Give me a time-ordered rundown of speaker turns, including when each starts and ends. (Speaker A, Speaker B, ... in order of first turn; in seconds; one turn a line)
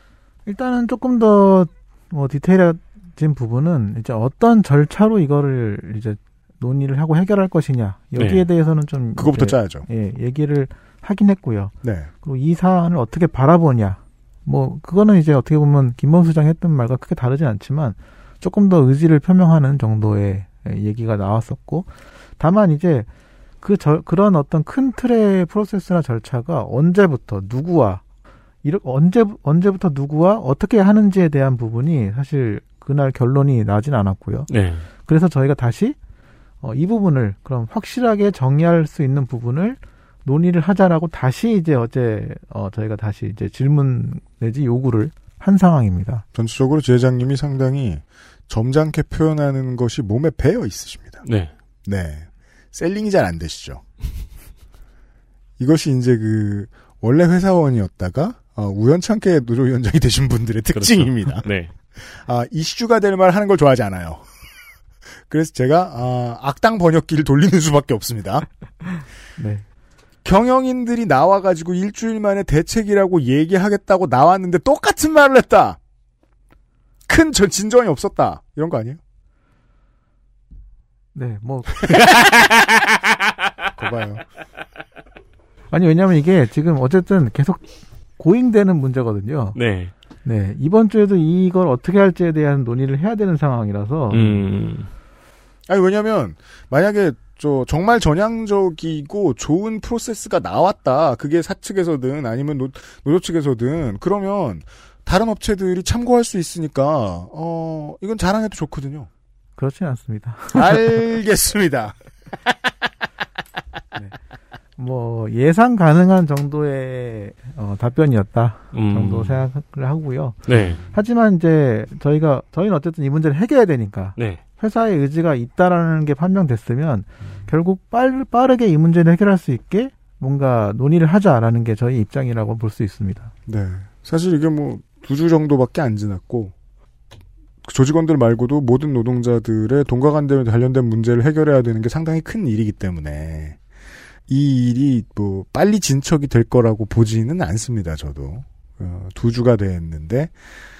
Speaker A: 0.5-23.1
Speaker B: 8.2-8.4
Speaker C: 9.2-9.8
Speaker C: 11.8-12.1
Speaker A: 23.6-28.0
Speaker A: 28.6-34.5
Speaker B: 34.5-34.9
Speaker A: 35.0-36.0
Speaker A: 36.6-46.2
Speaker C: 46.3-51.2
Speaker B: 51.2-51.5
Speaker C: 51.8-53.8
Speaker C: 55.6-61.5
Speaker B: 60.7-61.7
Speaker C: 62.0-64.2
Speaker C: 65.3-68.5
Speaker A: 69.4-69.6
Speaker C: 70.2-75.8
Speaker C: 77.1-79.0
Speaker A: 81.1-82.0
Speaker C: 83.8-84.2
Speaker A: 85.7-87.7
Speaker A: 88.2-89.6
Speaker B: 89.5-89.9
Speaker A: 90.2-94.3
Speaker B: 94.1-94.9
Speaker C: 95.7-109.1
Speaker A: 109.6-111.0
Speaker C: 110.5-112.5
Speaker A: 114.8-133.3
Speaker B: 118.7-119.4
Speaker B: 120.5-120.8
Speaker C: 120.5-120.8
Speaker C: 133.5-136.5
Speaker C: 137.6-143.6
Speaker C: 144.3-150.3